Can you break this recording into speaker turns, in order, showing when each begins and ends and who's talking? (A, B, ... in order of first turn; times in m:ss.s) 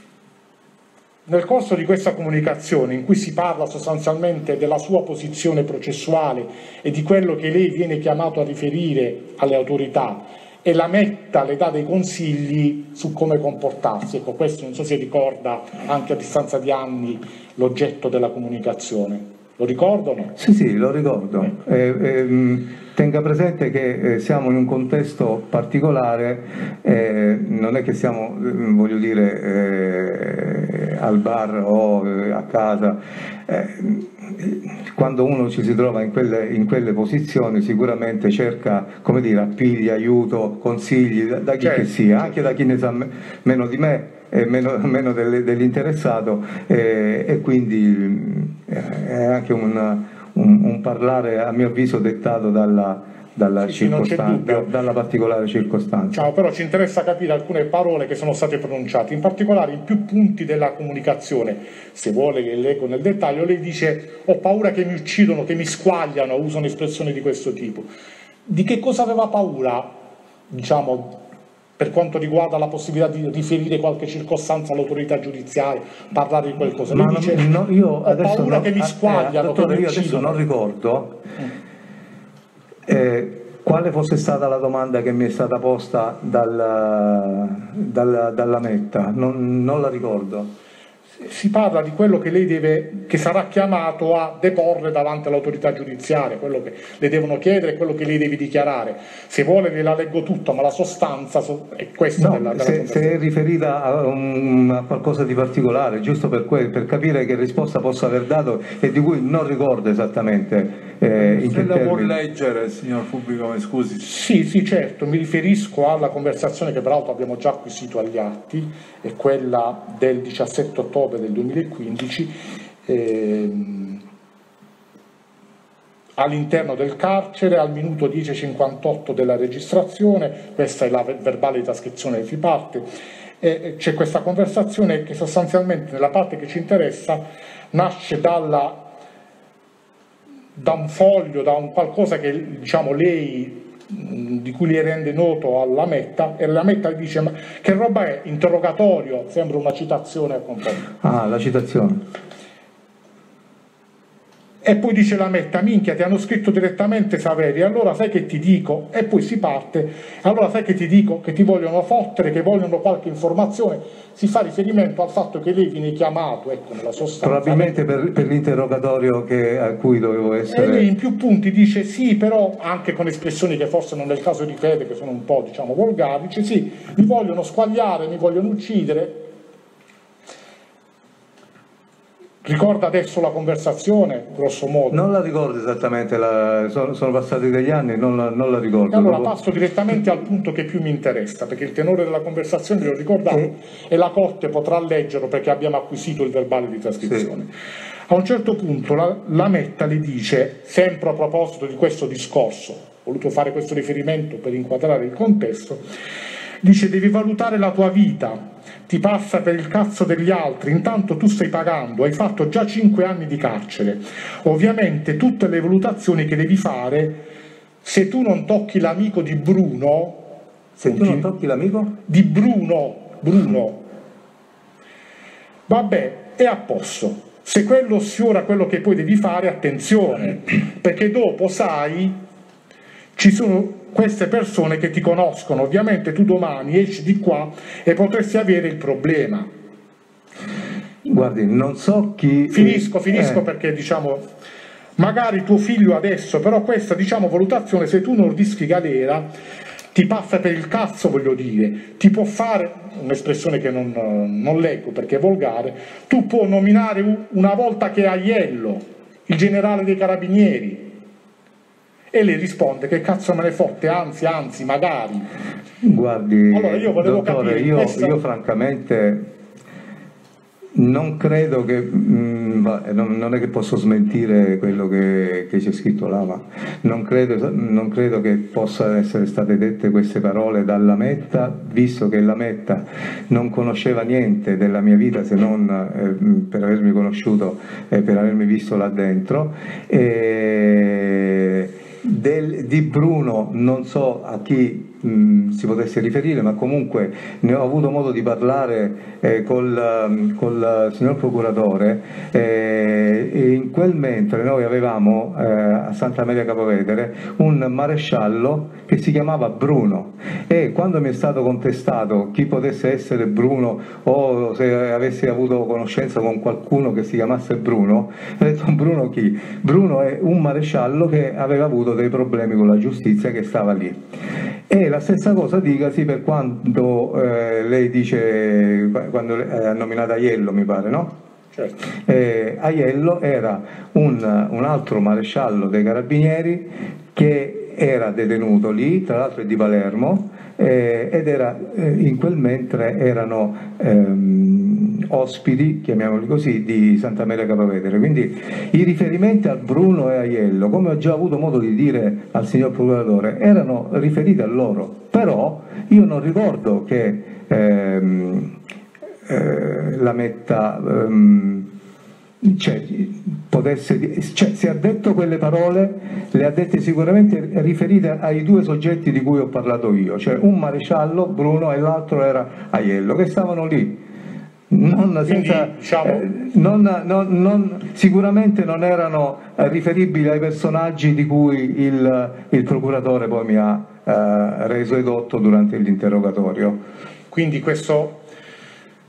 0:01.3-0:20.3 A
0:20.4-0:56.2 B
0:41.6-0:42.4 A
0:53.6-0:54.7 A
0:56.1-1:07.9 A
1:08.4-1:10.0 A
1:10.5-1:11.2 A
1:11.8-1:17.5 A
1:16.9-1:21.2 B
1:18.0-1:20.4 A
1:22.9-1:30.5 B
1:31.2-1:43.1 A
1:42.2-1:52.2 B
1:51.2-1:54.0 C
1:54.0-2:02.3 A
2:02.8-2:04.0 A
2:06.2-2:12.8 A
2:13.4-2:18.8 A
2:20.6-2:30.9 A
2:31.0-2:32.0 B
2:34.6-2:47.8 A
2:47.2-2:50.9 B
2:50.5-2:59.3 A
3:02.4-3:05.0 A
3:04.9-3:09.3 B
3:08.9-3:17.5 A
3:17.0-3:17.3 B
3:18.1-3:25.9 A
3:26.6-3:37.2 A
3:37.8-3:40.3 A
3:40.8-3:42.0 B
3:40.8-3:41.3 A
3:42.1-3:43.8 A
3:45.7-3:52.2 A
3:53.2-3:59.5 A
4:01.0-4:03.4 B
4:02.5-4:04.3 A
4:05.0-4:09.3 A
4:09.9-4:20.9 A
4:22.1-4:25.3 A
4:25.8-4:29.3 B
4:26.5-4:28.2 A
4:30.7-5:24.0 B
5:24.7-5:31.1 B
5:32.0-5:58.5 B
5:59.3-6:01.7 B
6:02.4-6:14.0 B
6:14.7-6:26.8 B
6:15.2-6:16.3 A
6:27.3-6:28.2 A